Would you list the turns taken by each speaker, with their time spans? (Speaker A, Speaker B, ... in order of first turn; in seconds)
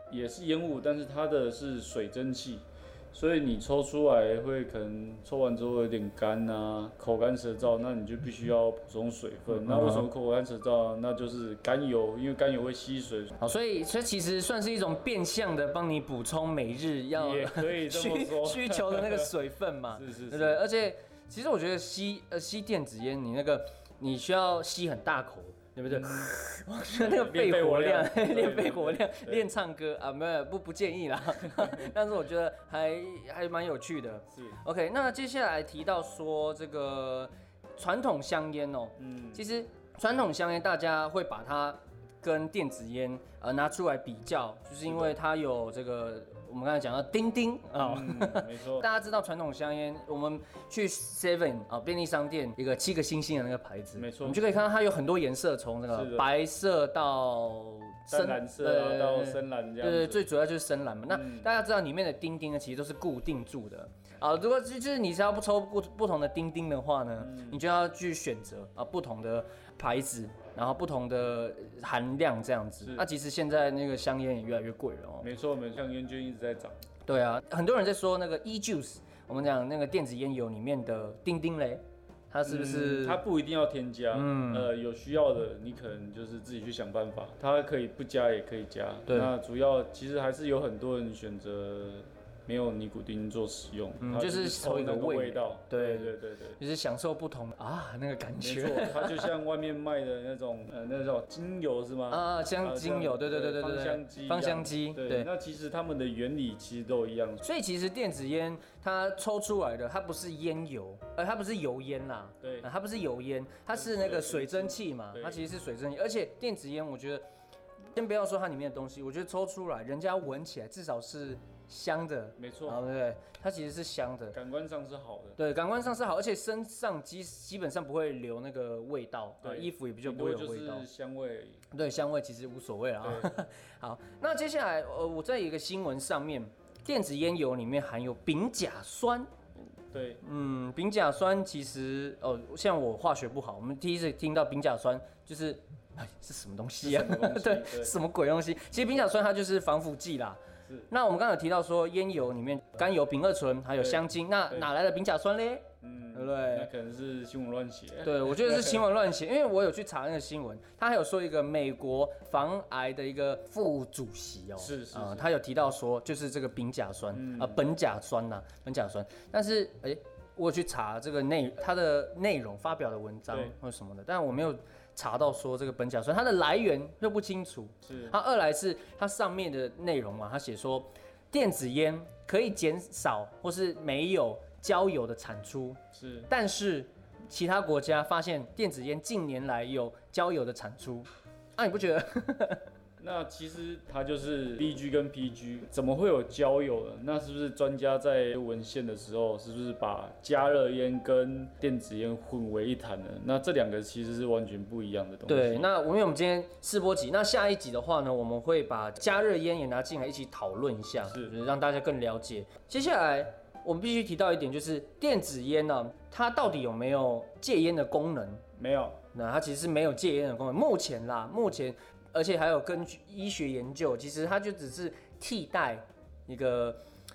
Speaker A: 0.1-13.4, 17.1-19.3, 19.9-20.6, 25.9-26.3, 26.9-29.5, 34.3-34.6, 39.0-39.4, 44.8-45.2, 47.8-48.9, 54.0-54.4, 55.9-56.3, 58.1-60.3, 61.1-61.5, 67.2-67.6, 75.2-76.8, 82.4-96.6, 98.4-107.4, 112.4-112.7, 113.7-115.5, 122.4-122.8, 124.3-125.4, 129.4-131.6, 133.0-133.4, 139.9-140.2, 146.8-147.9, 153.8-154.7, 155.8-158.8, 164.6-165.3, 167.1-167.6, 177.8-178.2, 185.9-186.3, 193.0-205.7, 211.1-211.3, 218.6-219.0
Speaker B: 9.5-10.1, 13.4-75.3, 77.0-83.2, 84.1-84.7, 94.0-99.3, 102.1-105.3, 107.4-117.2, 117.9-124.4, 125.4-130.9, 131.7-139.3, 140.2-156.7, 158.0-192.6, 205.3-218.4, 219.1-226.8